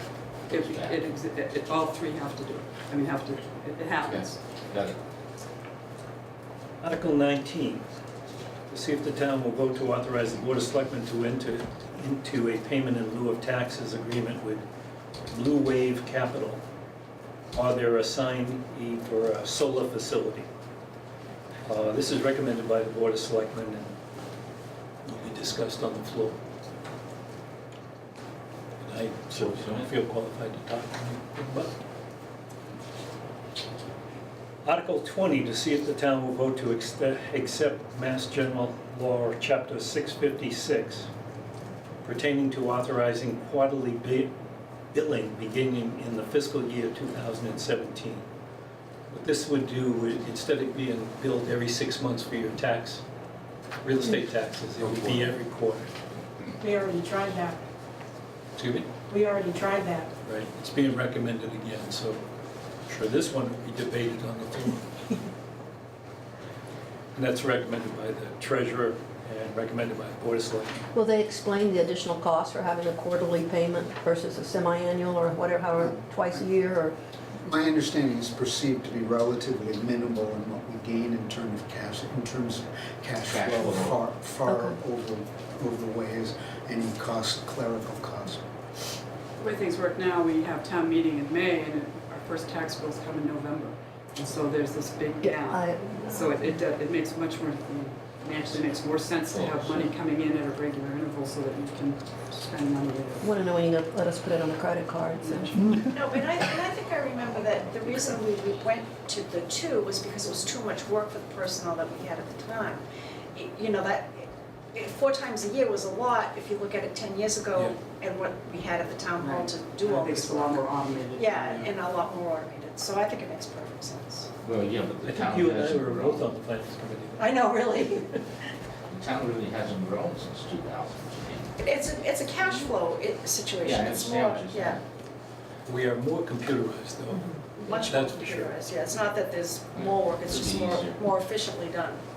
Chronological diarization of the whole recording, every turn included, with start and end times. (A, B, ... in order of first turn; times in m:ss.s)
0:00.4-0:04.4 A
0:00.5-0:01.0 B
0:04.0-0:05.0 B
0:06.8-0:07.8 C
0:08.7-0:14.6 C
0:15.3-0:16.6 C
0:17.5-0:20.5 C
0:21.6-0:23.9 C
0:25.0-0:26.4 C
0:28.8-0:31.7 C
0:29.3-0:29.9 B
0:34.6-0:41.1 C
0:42.0-0:44.3 C
0:44.9-0:48.2 C
0:49.1-0:53.0 C
0:53.8-0:55.9 C
0:56.6-0:57.6 D
0:58.6-0:58.9 C
0:59.1-1:00.1 D
1:00.2-1:02.2 C
1:02.9-1:05.0 C
1:07.1-1:10.8 C
1:10.9-1:16.9 E
1:15.8-1:16.5 F
1:17.4-1:28.4 F
1:23.3-1:24.0 B
1:24.4-1:24.8 E
1:29.4-1:43.3 A
1:35.2-1:36.5 E
1:39.2-1:39.9 B
1:43.2-1:45.8 E
1:45.2-1:45.5 A
1:45.8-1:52.8 G
1:53.3-2:04.3 G
1:59.2-2:01.8 A
2:04.4-2:06.3 B
2:05.0-2:07.3 C
2:07.2-2:08.2 G
2:08.9-2:11.6 B
2:11.6-2:14.8 G
2:13.6-2:14.8 B
2:15.6-2:18.5 C
2:17.5-2:22.0 G
2:19.7-2:21.1 B